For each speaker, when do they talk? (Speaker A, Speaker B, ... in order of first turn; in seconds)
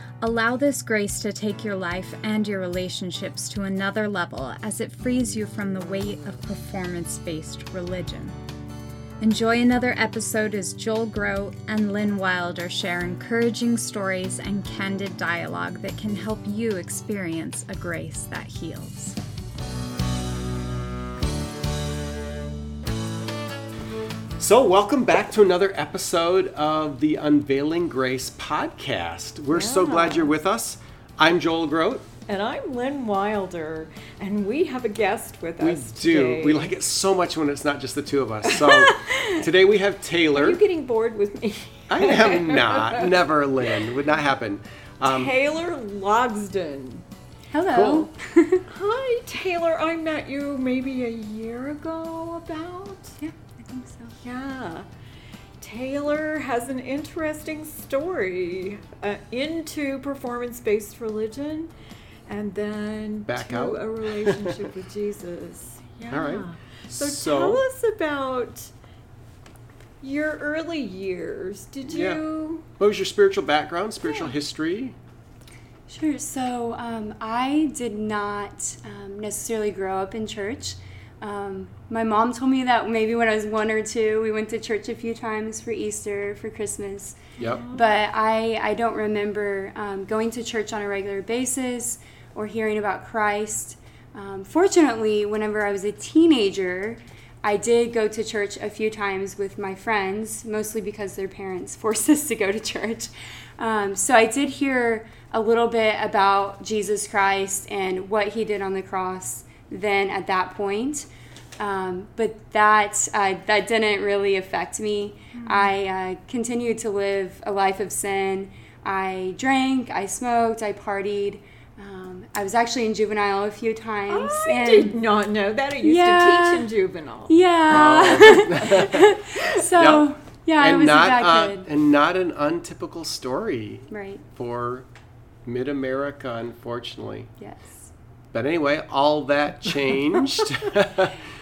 Speaker A: 0.2-8.4, 9.2-19.2
Speaker B: 24.4-32.1, 35.6-40.6, 41.9-45.3, 47.7-48.1, 63.3-64.6, 66.1-67.6, 71.9-72.2, 72.8-75.0, 127.7-134.9, 135.4-137.3, 138.3-141.2
Speaker C: 29.5-30.3, 32.3-36.7, 38.4-39.5, 40.3-43.1, 45.0-47.0, 48.7-53.2, 54.2-54.9, 55.6-61.7, 62.3-68.7, 70.0-72.7, 87.4-87.9, 115.4-115.7, 124.1-127.3
Speaker D: 47.5-48.6, 53.2-54.2, 75.9-87.2, 87.7-111.1, 111.6-125.0, 125.8-126.7, 127.3-131.7, 133.9-134.2, 137.4-137.9